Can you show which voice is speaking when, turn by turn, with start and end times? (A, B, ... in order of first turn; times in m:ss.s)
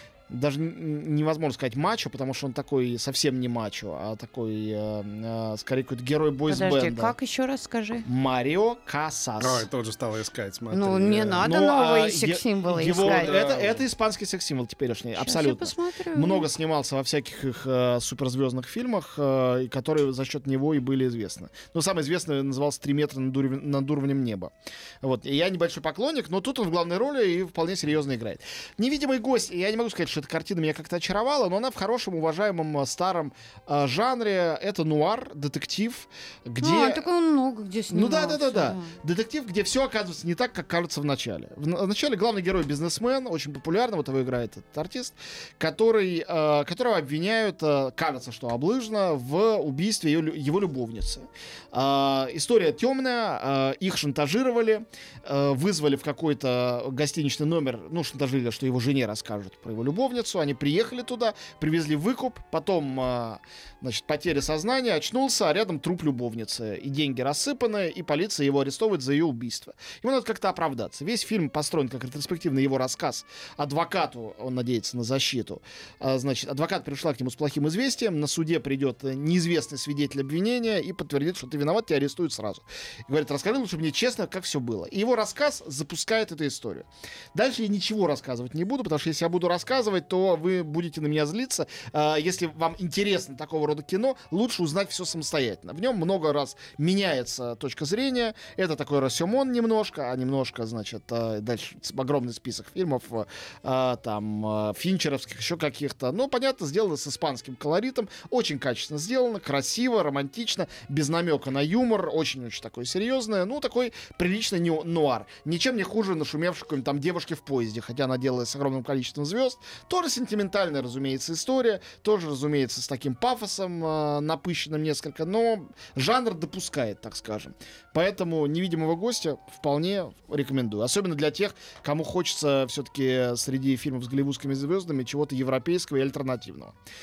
0:00.3-0:07.1 A
0:06.5-0:08.0 B
0:08.0-0:09.6 A
0:09.4-0:11.4 C
0:10.7-0:13.4 B
0:11.3-0:37.0 A
0:13.0-0:13.8 C
0:15.2-0:16.4 B
0:36.6-0:38.9 B
0:37.9-2:16.7 A